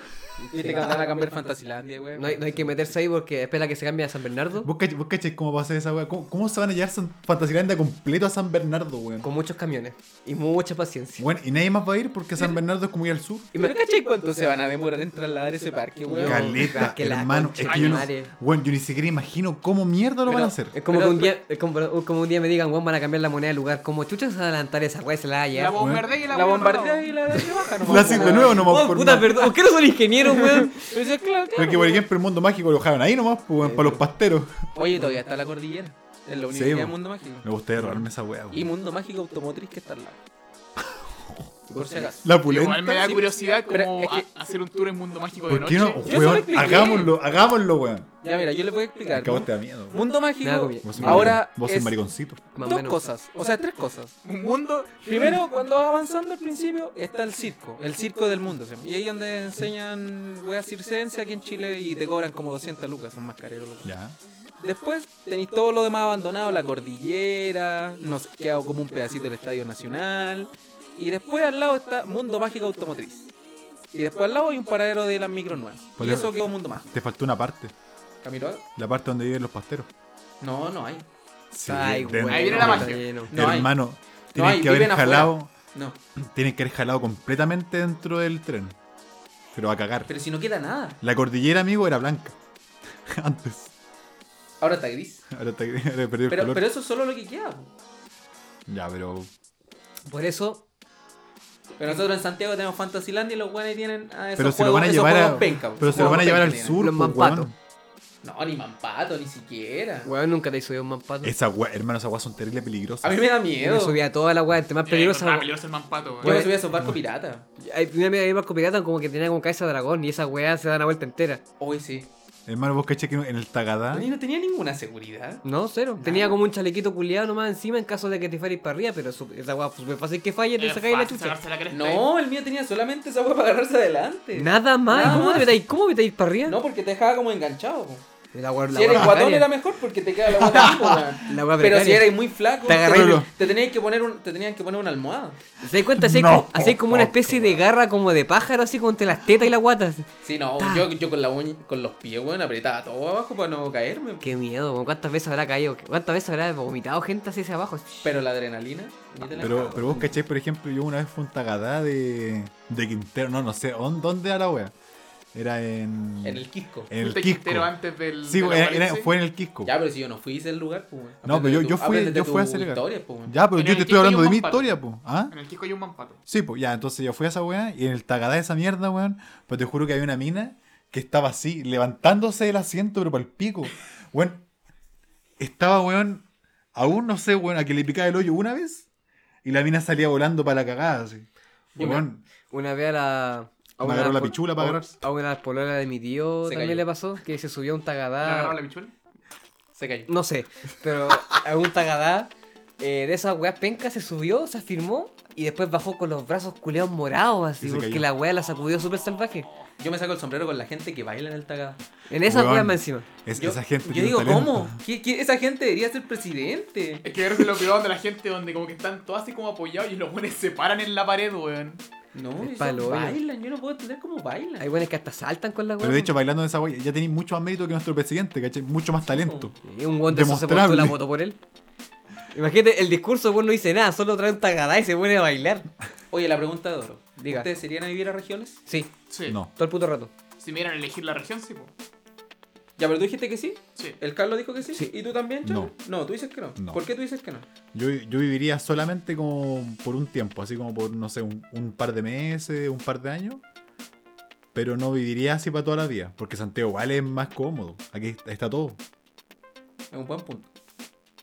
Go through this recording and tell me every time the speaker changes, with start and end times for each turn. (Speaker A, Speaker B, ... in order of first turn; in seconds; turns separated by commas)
Speaker A: 0.4-0.9, Speaker B: 0.5-2.9, Speaker A: 2.1-4.7, Speaker C: 4.6-9.3, Speaker A: 9.2-11.3, Speaker C: 11.2-13.5, Speaker B: 13.5-16.8, Speaker A: 16.1-18.3, Speaker C: 16.2-20.7, Speaker D: 17.6-18.1, Speaker B: 20.2-21.3, Speaker A: 20.7-25.8, Speaker D: 25.5-27.2, Speaker C: 25.7-26.1, Speaker B: 26.3-28.7, Speaker C: 27.3-29.4, Speaker A: 27.9-30.9, Speaker B: 30.2-32.0, Speaker C: 31.5-34.5, Speaker B: 33.6-34.0, Speaker B: 34.7-40.2, Speaker C: 36.5-38.7, Speaker C: 40.9-41.3, Speaker A: 41.7-42.1, Speaker B: 41.7-42.3, Speaker C: 42.2-43.1, Speaker D: 42.5-46.4, Speaker B: 42.9-44.2, Speaker C: 45.5-48.1, Speaker B: 46.0-47.1, Speaker B: 48.2-52.0, Speaker C: 49.1-50.0, Speaker A: 50.4-51.4, Speaker C: 50.8-52.4, Speaker A: 52.5-53.0, Speaker B: 52.6-54.2, Speaker D: 54.2-55.4, Speaker B: 55.0-63.9, Speaker C: 63.8-64.2, Speaker B: 64.6-73.3, Speaker B: 73.9-76.9, Speaker C: 76.0-77.7, Speaker B: 78.2-78.6, Speaker C: 78.8-79.9, Speaker B: 80.4-81.0, Speaker C: 81.5-85.5, Speaker A: 81.7-83.3, Speaker D: 82.3-83.1, Speaker B: 83.3-83.7, Speaker B: 84.3-86.0, Speaker C: 86.2-88.8, Speaker C: 89.5-90.1, Speaker B: 90.1-91.0, Speaker C: 91.0-92.3, Speaker C: 93.1-93.7, Speaker B: 94.6-95.2, Speaker C: 95.3-96.7, Speaker B: 96.3-97.7, Speaker C: 98.7-99.3, Speaker A: 100.0-100.6, Speaker B: 101.8-106.8, Speaker C: 104.4-107.5, Speaker A: 105.9-107.5, Speaker B: 108.2-110.1, Speaker A: 110.0-111.3, Speaker C: 111.2-113.2, Speaker B: 113.0-114.0, Speaker A: 113.6-115.5, Speaker D: 114.8-116.4, Speaker B: 116.2-117.5, Speaker A: 116.2-116.5, Speaker A: 117.6-121.4, Speaker B: 121.6-122.1, Speaker C: 122.5-124.1, Speaker B: 123.9-125.4, Speaker A: 125.4-131.4, Speaker B: 126.0-126.3, Speaker D: 130.6-132.1, Speaker B: 131.7-135.5, Speaker A: 134.3-136.6, Speaker C: 135.0-135.5, Speaker B: 136.4-138.0, Speaker A: 138.3-139.5, Speaker B: 138.7-145.4, Speaker C: 140.3-141.2, Speaker A: 141.2-143.2, Speaker C: 142.8-143.3, Speaker A: 145.6-150.9, Speaker C: 145.8-147.6, Speaker B: 150.2-154.3, Speaker A: 154.2-158.1, Speaker B: 158.0-160.1, Speaker C: 159.4-164.7, Speaker C: 165.3-169.7, Speaker B: 166.2-166.9, Speaker D: 167.0-169.1, Speaker B: 169.6-173.3, Speaker C: 171.2-175.3, Speaker D: 173.5-174.7, Speaker D: 175.3-176.2, Speaker C: 176.3-184.4, Speaker C: 185.4-188.8, Speaker C: 189.4-192.2, Speaker B: 191.8-192.0, Speaker A: 192.5-198.6, Speaker C: 193.8-194.9, Speaker B: 196.4-196.8, Speaker D: 198.2-198.9, Speaker B: 199.8-200.1, Speaker A: 200.1-209.5, Speaker C: 207.6-208.1, Speaker B: 209.8-211.8, Speaker A: 212.1-213.1, Speaker C: 212.2-214.8, Speaker B: 213.3-217.0, Speaker D: 217.0-221.8, Speaker B: 222.1-224.7, Speaker A: 222.4-223.2, Speaker A: 224.6-226.1, Speaker C: 225.8-229.6, Speaker B: 229.1-229.5, Speaker A: 229.6-231.4, Speaker C: 230.1-231.0, Speaker A: 232.3-235.7, Speaker B: 236.1-238.6, Speaker A: 237.2-237.5, Speaker A: 238.7-238.9, Speaker D: 239.1-239.4, Speaker A: 239.6-240.1, Speaker D: 240.4-241.7, Speaker B: 242.8-247.4, Speaker C: 245.4-245.7, Speaker C: 247.7-253.4, Speaker C: 254.5-258.8, Speaker B: 259.9-260.5